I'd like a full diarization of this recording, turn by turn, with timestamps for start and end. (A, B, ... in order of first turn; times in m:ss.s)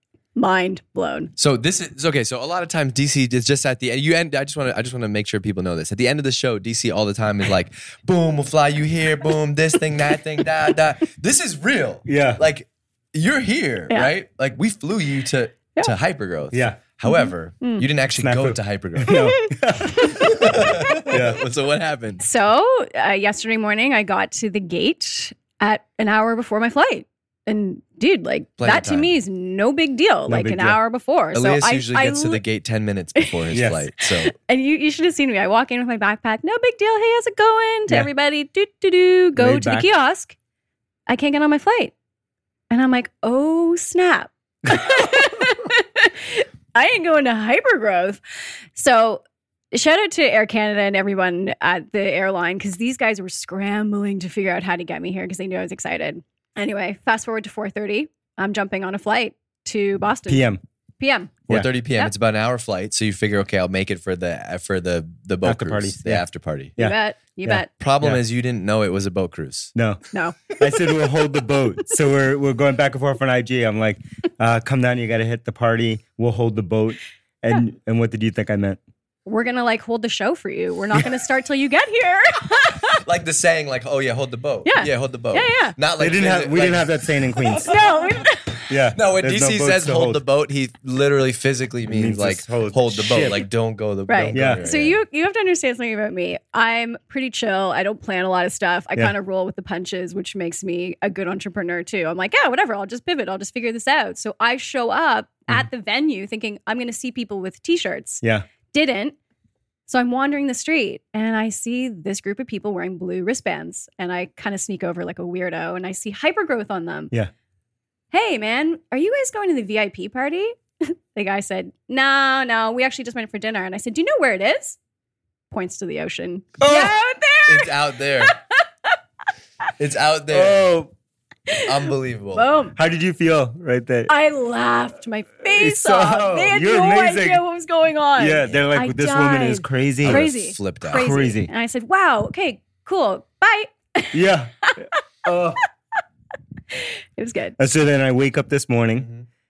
0:00.4-0:01.3 A
0:01.4-0:19.3 B
0:12.0-0:12.4 C
0:16.5-0:16.8 C
0:17.1-0:17.8 A
0:18.2-0:21.4 C
0:19.0-0:21.0 A
0:20.0-0:22.2 B
0:22.2-0:32.4 A
0:28.6-0:29.1 B
0:30.3-0:30.8 C
0:31.3-0:34.3 B
0:33.5-0:33.9 C
0:34.0-0:40.4 A
0:39.4-0:39.8 C
0:41.1-0:41.9 A
0:42.7-0:48.2 A
0:48.7-1:01.4 A
1:00.3-1:00.6 C
1:01.5-1:06.8 B
1:05.4-1:06.2 C
1:06.8-1:07.7 A
1:07.5-1:08.2 C
1:07.8-1:09.7 B
1:09.7-1:10.0 C
1:10.1-1:11.1 A
1:10.6-1:18.8 C
1:19.2-1:23.0 A
1:22.9-1:27.0 B
1:24.6-1:25.8 A
1:26.0-1:27.8 C
1:27.5-1:28.7 A
1:28.7-1:30.2 C
1:28.9-1:35.0 B
1:31.9-1:33.4 C
1:34.1-1:49.2 A
1:34.3-1:34.6 C
1:49.9-1:57.1 A
1:58.1-2:04.8 A
2:05.5-2:08.9 A
2:06.6-2:06.9 C
2:07.5-2:08.3 B
2:09.8-2:10.6 B
2:10.3-2:10.9 C
2:11.5-2:12.8 A
2:11.6-2:12.4 B
2:12.8-2:14.1 C
2:14.1-2:25.0 A
2:15.5-2:17.4 C
2:18.2-2:20.2 C
2:20.0-2:21.1 B
2:20.8-2:21.5 C
2:24.1-2:25.6 C
2:26.7-2:27.6 A
2:27.6-2:29.1 C